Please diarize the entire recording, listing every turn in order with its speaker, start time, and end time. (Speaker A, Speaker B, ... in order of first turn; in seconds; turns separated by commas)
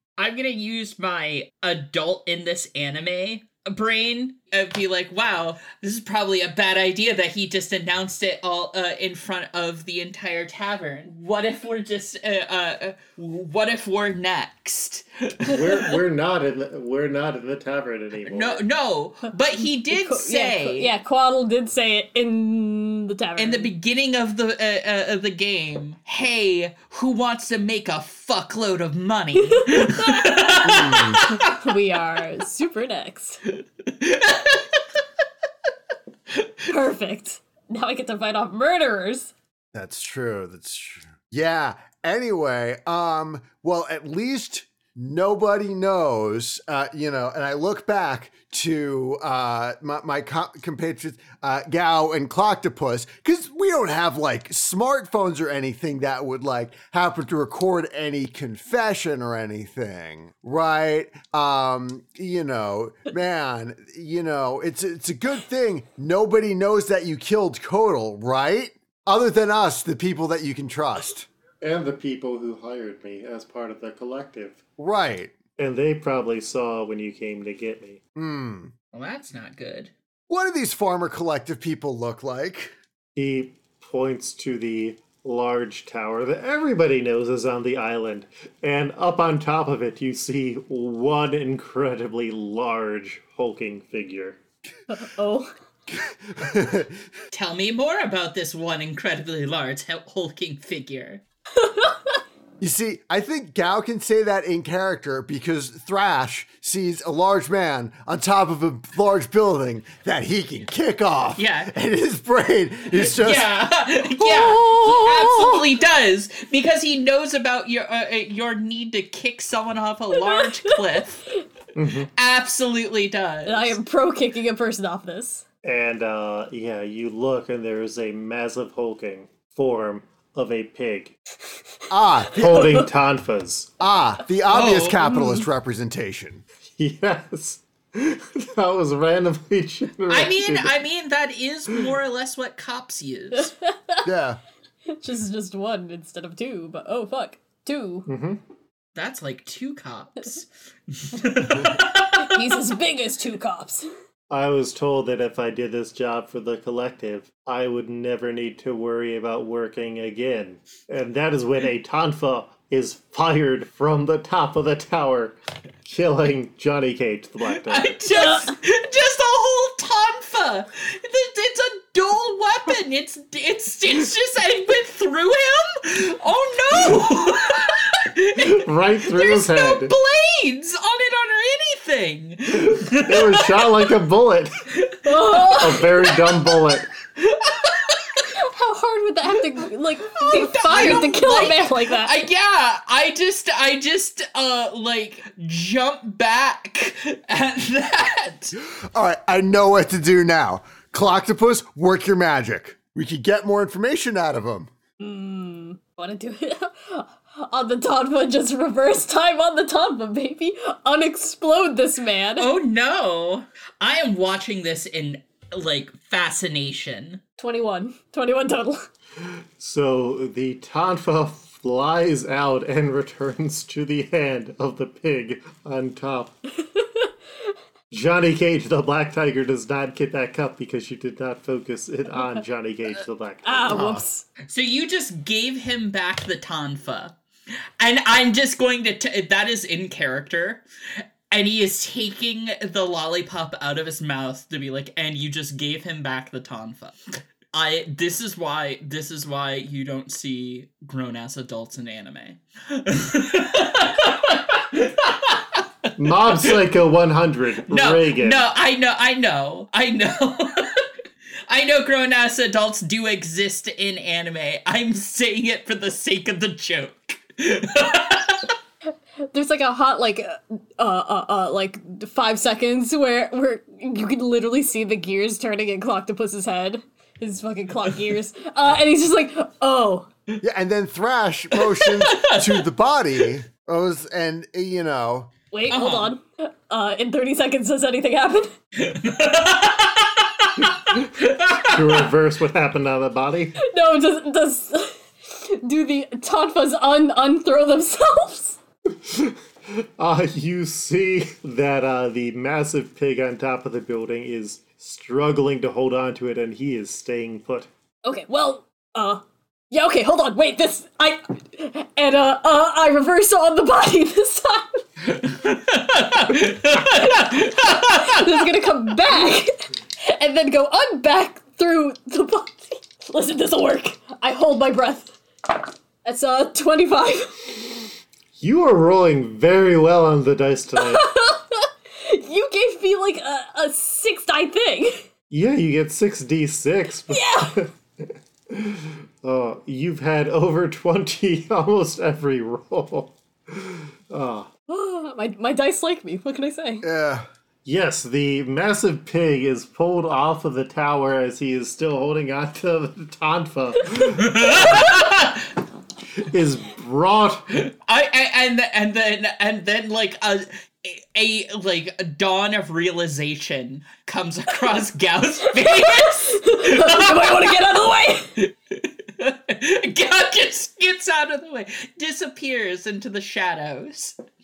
Speaker A: 0.2-16.0, Speaker B: 15.4-18.6, Speaker A: 18.2-20.9, Speaker C: 19.9-23.7, Speaker A: 23.4-31.4, Speaker C: 29.5-30.2, Speaker D: 30.6-31.2, Speaker C: 31.2-33.4, Speaker A: 33.9-34.8, Speaker C: 36.7-39.3, Speaker D: 39.7-71.3, Speaker B: 71.6-74.6, Speaker D: 74.8-75.3, Speaker B: 75.6-78.0, Speaker D: 78.1-78.7, Speaker A: 78.9-79.9, Speaker D: 80.3-82.7, Speaker B: 83.1-94.4, Speaker C: 94.9-95.5, Speaker D: 95.9-97.0, Speaker A: 97.3-101.2, Speaker C: 101.6-102.1, Speaker D: 102.6-113.5, Speaker A: 111.4-111.7, Speaker A: 112.9-121.3, Speaker C: 120.2-120.8, Speaker B: 121.7-122.1, Speaker A: 122.2-123.8, Speaker C: 123.5-125.4, Speaker B: 125.6-131.1, Speaker D: 131.9-132.7, Speaker B: 132.3-133.7, Speaker C: 132.5-132.8, Speaker D: 133.8-136.4, Speaker A: 134.5-135.1, Speaker B: 136.8-140.7, Speaker A: 140.1-143.6, Speaker C: 143.3-144.1, Speaker D: 144.0-144.4, Speaker C: 144.9-148.1, Speaker B: 148.1-148.4, Speaker A: 148.9-152.2, Speaker C: 152.2-153.9, Speaker B: 154.3-168.0, Speaker A: 167.5-183.9, Speaker C: 168.1-168.5, Speaker B: 178.4-179.9, Speaker B: 182.6-184.6, Speaker A: 184.8-186.6, Speaker C: 185.0-185.8, Speaker B: 185.6-186.9, Speaker A: 187.2-188.2, Speaker C: 188.3-192.2, Speaker A: 190.1-198.6, Speaker D: 198.6-204.7, Speaker C: 205.0-212.5, Speaker A: 212.4-217.2, Speaker C: 217.4-218.8, Speaker B: 219.2-226.3, Speaker C: 226.6-227.5, Speaker B: 227.9-233.7, Speaker C: 233.4-234.2, Speaker D: 233.7-234.0, Speaker A: 234.5-237.1, Speaker A: 237.8-240.6, Speaker A: 241.3-247.0, Speaker A: 247.5-256.6, Speaker B: 256.0-258.4, Speaker A: 257.7-260.9, Speaker A: 261.5-268.5, Speaker C: 269.3-280.1, Speaker D: 280.4-285.3, Speaker A: 281.5-282.6, Speaker C: 285.5-288.5, Speaker A: 285.7-286.1, Speaker A: 288.8-292.1, Speaker B: 290.7-293.6, Speaker C: 293.6-298.6, Speaker B: 298.9-307.7, Speaker C: 308.0-314.8, Speaker A: 315.1-318.3, Speaker C: 317.8-327.5, Speaker B: 328.4-331.1, Speaker C: 330.8-335.0, Speaker B: 335.3-344.5, Speaker C: 337.1-337.6, Speaker C: 344.7-346.9, Speaker D: 346.8-347.2, Speaker B: 347.6-355.1, Speaker A: 354.0-355.5, Speaker B: 356.2-357.6, Speaker A: 357.6-367.5, Speaker C: 365.6-368.3, Speaker A: 368.4-374.1